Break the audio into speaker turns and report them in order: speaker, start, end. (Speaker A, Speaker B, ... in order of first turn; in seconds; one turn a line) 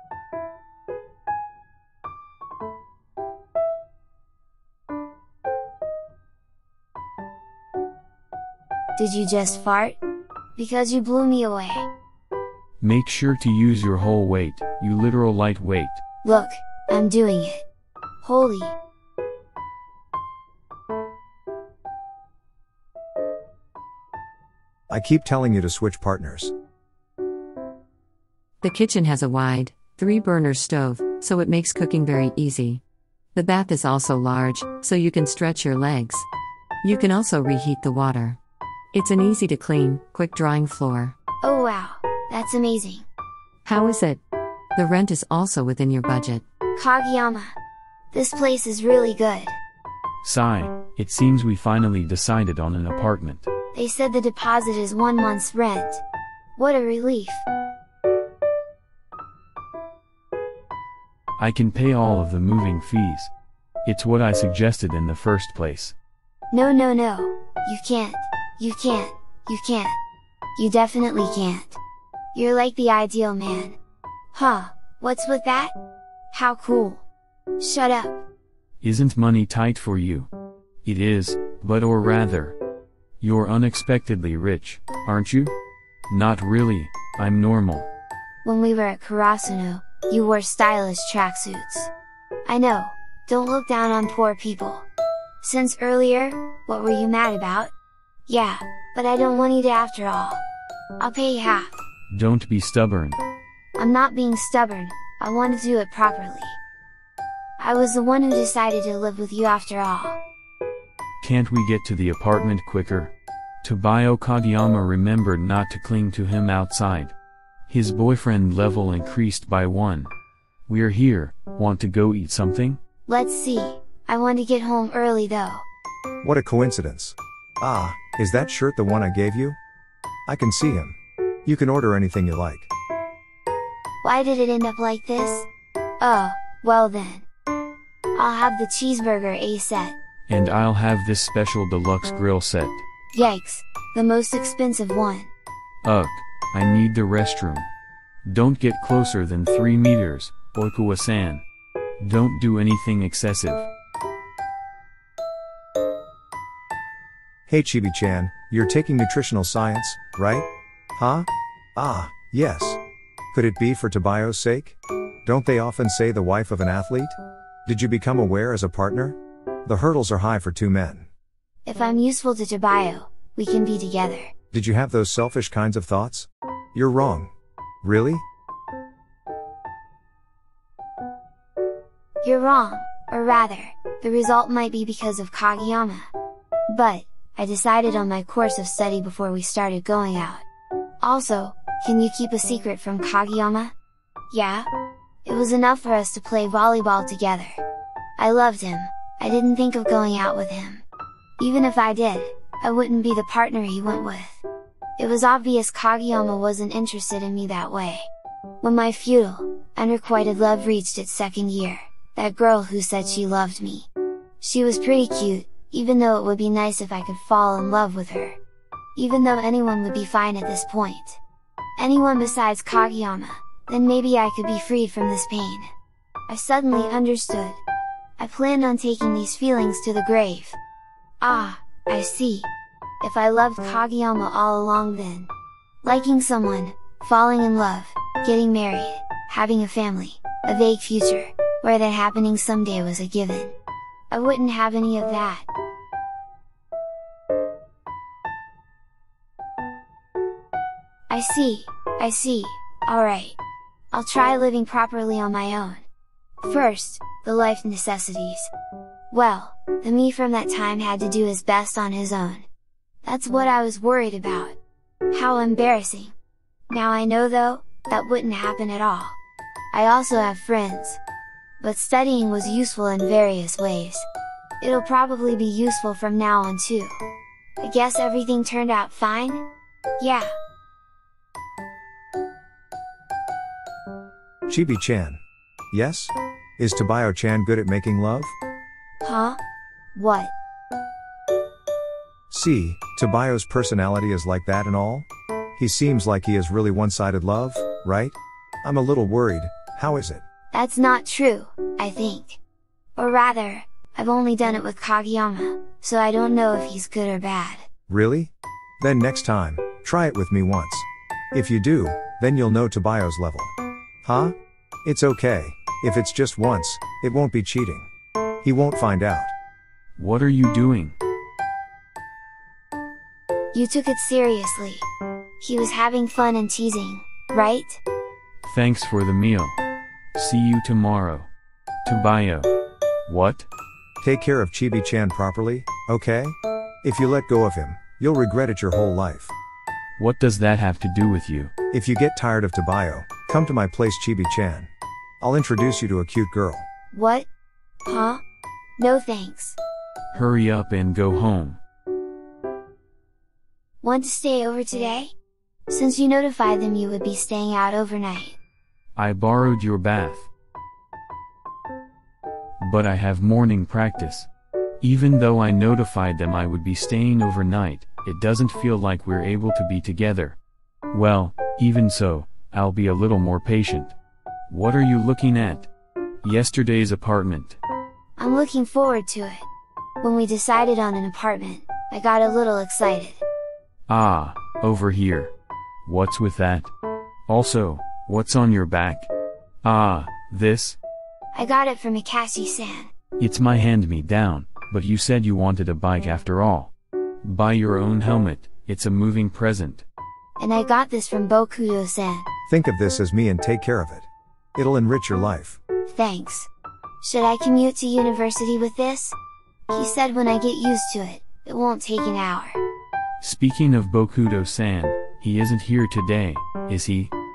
Speaker A: 9.0-10.0
Speaker A: 10.6-11.9
Speaker B: 12.8-16.0
Speaker A: 16.2-17.6
Speaker A: 18.2-18.8
Speaker C: 24.9-26.5
Speaker D: 28.6-32.8
Speaker D: 33.4-36.3
Speaker D: 36.8-38.4
Speaker D: 38.9-41.1
Speaker A: 41.4-43.1
Speaker D: 43.6-44.2
Speaker D: 44.8-46.4
Speaker A: 46.8-47.5
Speaker A: 48.1-49.6
Speaker B: 50.2-53.5
Speaker A: 53.7-56.0
Speaker A: 56.6-57.5
Speaker B: 61.4-63.3
Speaker B: 63.8-66.0
Speaker A: 66.5-70.0
Speaker A: 70.6-71.8
Speaker A: 72.3-73.8
Speaker A: 74.3-75.7
Speaker A: 76.3-77.0
Speaker A: 77.6-78.2
Speaker B: 78.8-80.3
Speaker B: 80.8-82.6
Speaker B: 83.2-85.5
Speaker B: 86.1-87.9
Speaker A: 88.4-91.9
Speaker A: 92.5-94.9
Speaker A: 95.4-97.7
Speaker A: 98.3-100.4
Speaker A: 101.0-101.8
Speaker B: 102.1-103.2
Speaker A: 103.8-106.6
Speaker A: 107.6-110.2
Speaker B: 111.2-117.2
Speaker B: 117.7-120.1
Speaker B: 120.7-122.8
Speaker A: 123.1-125.7
Speaker C: 126.2-129.6
Speaker C: 130.3-132.7
Speaker A: 134.0-135.5
Speaker A: 136.0-137.3
Speaker A: 138.2-140.0
Speaker B: 140.3-142.8
Speaker A: 143.1-145.3
Speaker B: 145.8-147.7
Speaker B: 148.3-151.4
Speaker B: 152.0-153.7
Speaker C: 157.5-162.8
Speaker C: 163.3-171.1
Speaker A: 171.7-174.3
Speaker C: 174.5-177.3
Speaker C: 177.8-178.2
Speaker A: 182.2-186.1
Speaker A: 186.7-190.4
Speaker A: 191.0-193.7
Speaker A: 194.3-194.7
Speaker A: 195.2-197.6
Speaker A: 198.2-200.8
Speaker A: 201.4-204.4
Speaker A: 205.0-208.1
Speaker A: 208.6-213.9
Speaker A: 214.4-218.4
Speaker A: 219.0-221.2
Speaker A: 221.8-225.7
Speaker A: 226.3-227.6
Speaker A: 228.2-230.6
Speaker A: 231.2-232.5
Speaker A: 233.0-235.3
Speaker A: 235.8-243.6
Speaker A: 244.1-245.5
Speaker A: 251.1-253.4
Speaker A: 253.9-255.8
Speaker A: 256.4-258.5
Speaker A: 259.1-262.5
Speaker A: 263.0-264.6
Speaker A: 265.1-266.1
Speaker A: 266.7-269.2
Speaker A: 269.7-271.0
Speaker A: 271.6-274.1
Speaker A: 274.6-277.0
Speaker A: 277.6-279.4
Speaker A: 280.0-280.3
Speaker C: 284.5-285.2
Speaker C: 285.7-288.4
Speaker A: 289.0-289.4
Speaker A: 289.9-290.3
Speaker C: 292.3-300.2
Speaker A: 300.5-302.4
Speaker A: 303.0-307.7
Speaker C: 307.9-313.5
Speaker C: 314.1-317.9
Speaker C: 318.4-319.3
Speaker B: 320.0-321.0
Speaker A: 323.5-324.9
Speaker A: 325.4-327.8
Speaker B: 328.4-329.6
Speaker B: 330.1-331.3
Speaker B: 331.9-332.5
Speaker B: 333.1-333.5
Speaker C: 334.0-339.3
Speaker B: 340.0-341.5
Speaker C: 341.7-346.7
Speaker A: 346.9-347.3
Speaker A: 347.9-348.2
Speaker A: 348.8-349.6
Speaker B: 350.1-351.6
Speaker A: 353.8-355.1
Speaker A: 355.7-358.4
Speaker B: 359.0-360.3
Speaker B: 362.6-364.3
Speaker B: 364.8-370.4
Speaker B: 370.9-374.0
Speaker B: 374.5-375.7
Speaker B: 376.2-377.6
Speaker A: 378.2-379.5
Speaker A: 380.0-383.2
Speaker B: 383.9-385.3
Speaker B: 385.9-386.7
Speaker B: 387.3-389.1
Speaker B: 389.6-390.8
Speaker A: 391.3-392.9
Speaker B: 393.2-396.7
Speaker B: 397.2-399.9
Speaker A: 400.4-402.3
Speaker C: 402.5-405.6
Speaker A: 405.9-406.5
Speaker A: 407.0-409.2
Speaker A: 409.7-412.6
Speaker B: 413.2-417.1